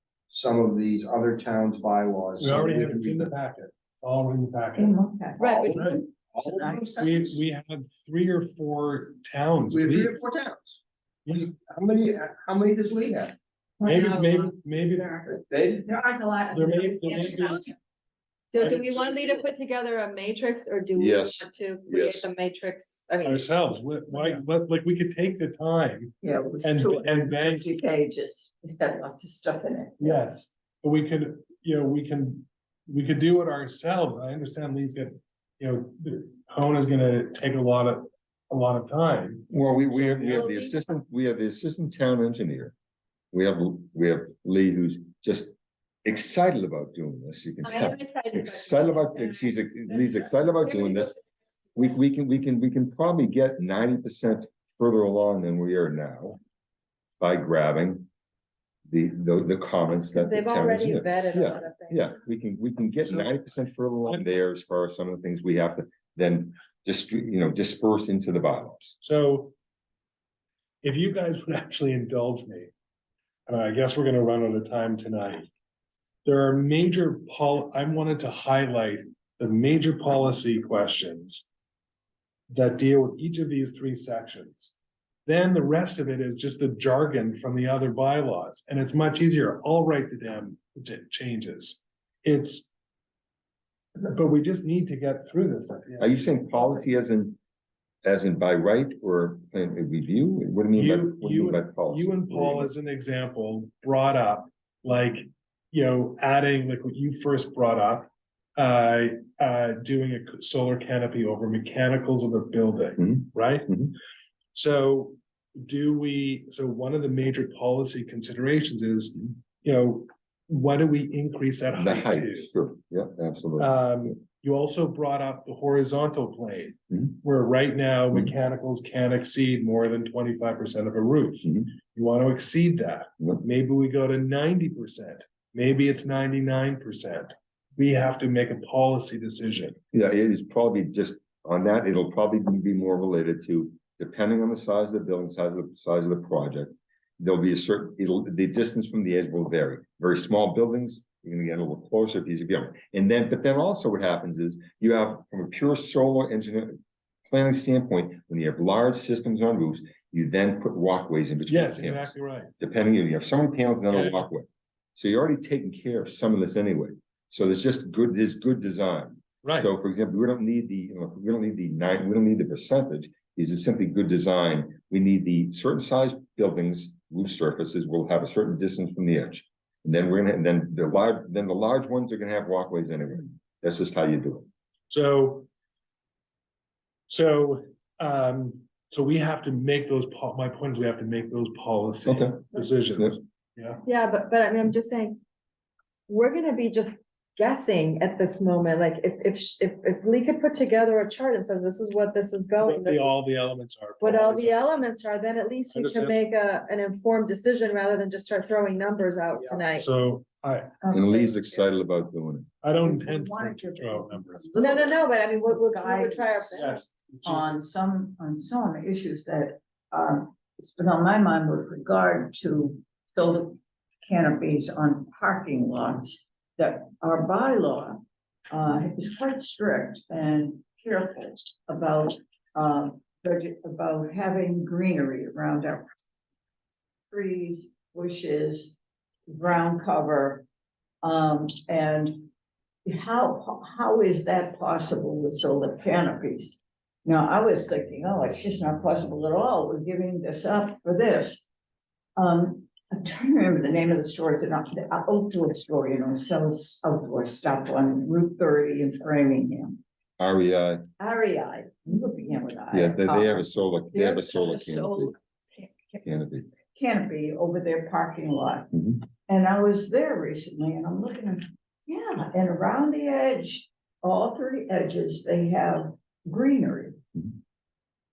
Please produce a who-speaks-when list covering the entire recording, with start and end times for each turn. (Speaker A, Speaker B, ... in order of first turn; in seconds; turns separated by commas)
Speaker A: 0.3-3.3, Speaker B: 2.4-5.0, Speaker C: 4.8-6.9, Speaker D: 5.4-5.7, Speaker B: 5.7-6.0, Speaker A: 6.3-7.4, Speaker B: 7.0-10.2, Speaker A: 9.7-13.3, Speaker E: 13.8-14.5, Speaker B: 13.8-15.2, Speaker D: 14.0-14.4, Speaker D: 14.9-15.2, Speaker A: 15.2-15.9, Speaker E: 15.8-17.7, Speaker B: 16.5-17.7, Speaker D: 18.5-23.4, Speaker B: 18.6-18.9, Speaker F: 20.9-22.3, Speaker B: 23.2-27.7, Speaker C: 26.2-30.2, Speaker B: 30.0-40.5, Speaker F: 39.5-42.7, Speaker D: 40.3-40.8, Speaker F: 43.3-45.5, Speaker F: 46.0-51.1, Speaker E: 47.6-51.1, Speaker F: 51.7-56.4, Speaker F: 57.2-58.1, Speaker F: 58.9-69.0, Speaker D: 60.1-62.2, Speaker B: 63.0-63.4, Speaker B: 69.0-69.5, Speaker B: 70.8-72.7, Speaker B: 73.5-75.5, Speaker B: 76.2-81.5, Speaker B: 82.5-92.7, Speaker B: 94.0-96.2, Speaker F: 96.0-97.4, Speaker F: 98.0-102.7, Speaker B: 100.8-113.9, Speaker F: 113.0-113.9, Speaker B: 114.5-122.5, Speaker F: 121.8-124.2, Speaker B: 123.6-139.8, Speaker F: 139.9-184.5, Speaker B: 161.5-162.5, Speaker B: 163.9-164.3, Speaker B: 169.4-169.7, Speaker B: 184.9-185.5, Speaker B: 187.1-193.8, Speaker F: 192.1-192.4, Speaker D: 193.8-195.2, Speaker D: 196.1-203.2, Speaker B: 202.6-204.8, Speaker D: 204.0-209.9, Speaker B: 205.7-206.1, Speaker B: 209.7-210.7, Speaker C: 210.8-211.7, Speaker F: 210.9-212.5, Speaker B: 212.6-214.6, Speaker C: 212.8-235.9, Speaker D: 214.6-216.7, Speaker B: 216.5-217.4, Speaker C: 237.1-238.8, Speaker C: 239.3-240.4, Speaker C: 241.0-242.3, Speaker C: 242.8-251.4, Speaker C: 252.2-259.8, Speaker F: 260.2-260.9, Speaker C: 261.0-266.0, Speaker F: 262.7-265.1, Speaker F: 266.0-266.5, Speaker C: 266.7-268.7, Speaker F: 268.7-269.0, Speaker C: 269.3-277.0